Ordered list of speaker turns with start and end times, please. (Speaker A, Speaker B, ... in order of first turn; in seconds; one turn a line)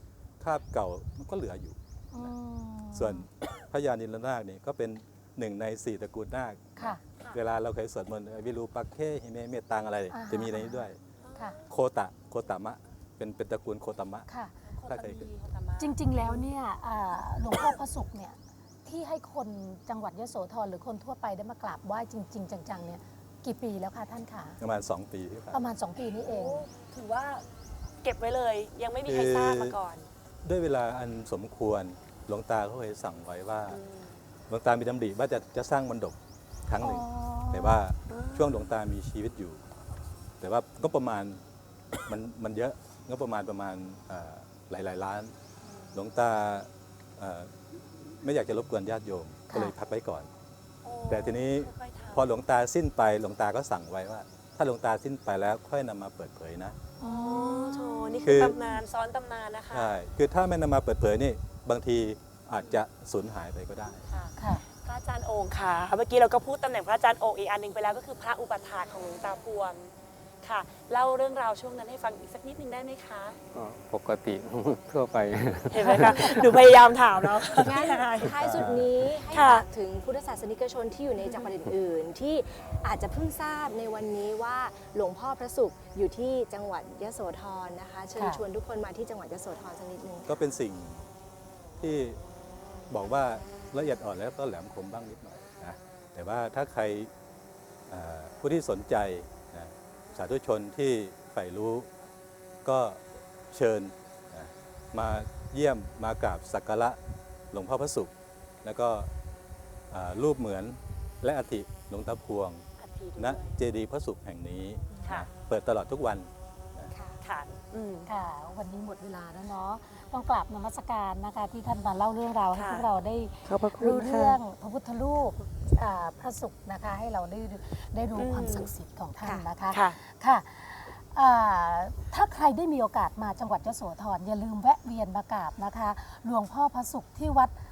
Speaker A: 0.4-2.3
Speaker B: 2.1-3.3
Speaker A: 2.9-11.0
Speaker B: 10.1-11.6
Speaker C: 11.2-11.7
Speaker A: 11.7-14.3
Speaker B: 14.3-14.5
Speaker C: 14.7-16.5
Speaker A: 14.9-15.2
Speaker B: 15.8-24.6
Speaker A: 24.6-25.6
Speaker B: 25.5-26.6
Speaker C: 26.2-27.5
Speaker C: 28.0-30.1
Speaker A: 29.1-29.8
Speaker A: 30.4-33.8
Speaker C: 33.7-34.2
Speaker A: 34.5-39.6
Speaker B: 36.8-37.8
Speaker C: 38.1-38.7
Speaker A: 40.4-41.4
Speaker A: 42.1-45.4
Speaker C: 45.7-46.0
Speaker A: 45.9-47.5
Speaker A: 48.1-50.3
Speaker B: 49.5-49.7
Speaker C: 50.8-52.3
Speaker A: 51.1-56.8
Speaker B: 57.0-58.8
Speaker C: 57.0-60.0
Speaker A: 58.2-58.6
Speaker A: 59.7-64.1
Speaker C: 64.1-69.9
Speaker B: 64.4-64.7
Speaker C: 70.4-73.4
Speaker D: 73.5-76.6
Speaker C: 75.7-78.4
Speaker E: 77.5-90.4
Speaker A: 78.4-78.9
Speaker C: 79.3-79.7
Speaker B: 88.2-88.4
Speaker A: 90.3-91.1
Speaker A: 91.8-92.2
Speaker A: 92.9-97.1
Speaker A: 97.9-101.9
Speaker A: 102.7-103.0
Speaker A: 103.5-107.0
Speaker A: 107.5-108.1
Speaker A: 108.6-109.1
Speaker A: 109.9-112.7
Speaker C: 112.8-113.6
Speaker A: 113.2-116.9
Speaker C: 115.0-115.3
Speaker E: 116.9-117.2
Speaker C: 117.2-118.1
Speaker B: 118.1-137.5
Speaker C: 122.5-122.9
Speaker C: 123.5-124.4
Speaker C: 128.2-128.7
Speaker C: 129.7-130.0